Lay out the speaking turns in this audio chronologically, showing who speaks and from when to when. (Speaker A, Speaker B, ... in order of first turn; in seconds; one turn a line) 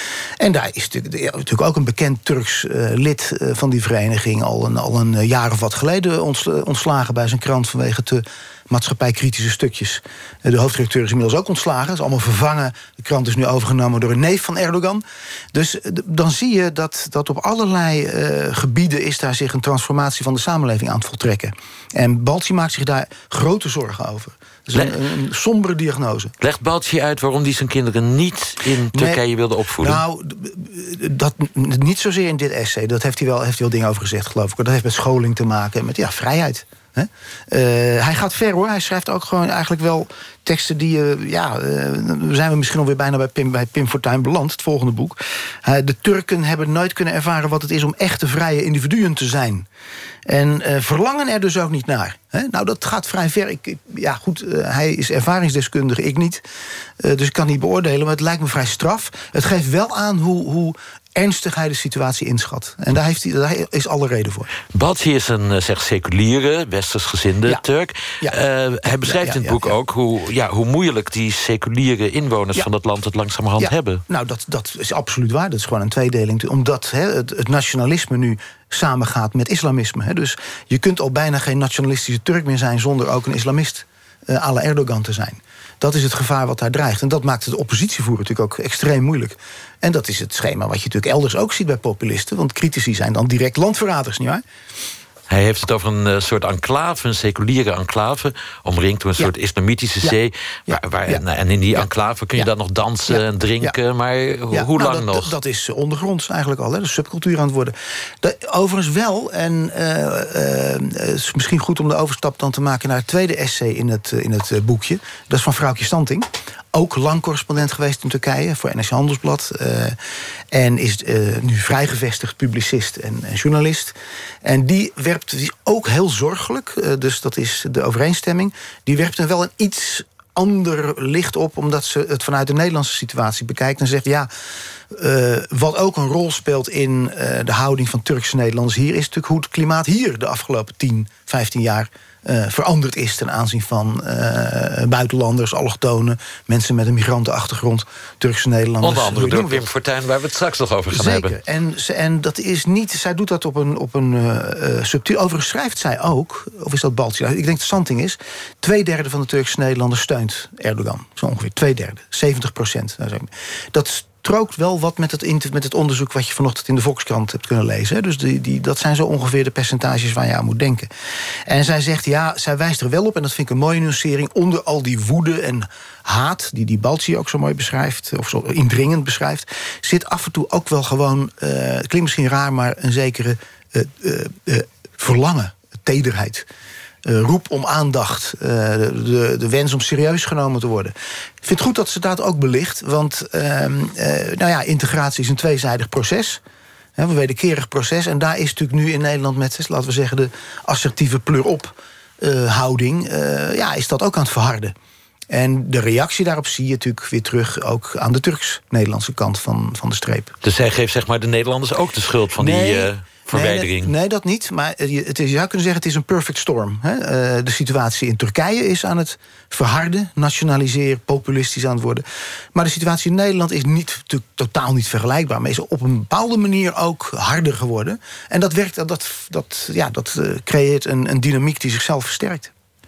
Speaker A: 0.4-26.3
Speaker B: 26.4-30.0
Speaker A: 28.9-29.2
Speaker A: 29.8-49.7
Speaker A: 50.3-56.4
Speaker A: 57.0-64.5
Speaker B: 64.7-74.0
Speaker A: 68.2-69.8
Speaker A: 73.6-94.4
Speaker B: 95.3-105.3
Speaker A: 100.7-101.2
Speaker A: 101.8-102.5
Speaker A: 103.1-103.8
Speaker A: 104.5-120.0
Speaker A: 120.5-134.3
Speaker A: 134.9-149.7
Speaker B: 148.8-151.3
Speaker A: 150.9-170.9
Speaker A: 171.5-186.5
Speaker A: 187.0-196.4
Speaker A: 197.0-204.7
Speaker A: 205.3-210.3
Speaker B: 210.4-213.9
Speaker A: 212.3-232.5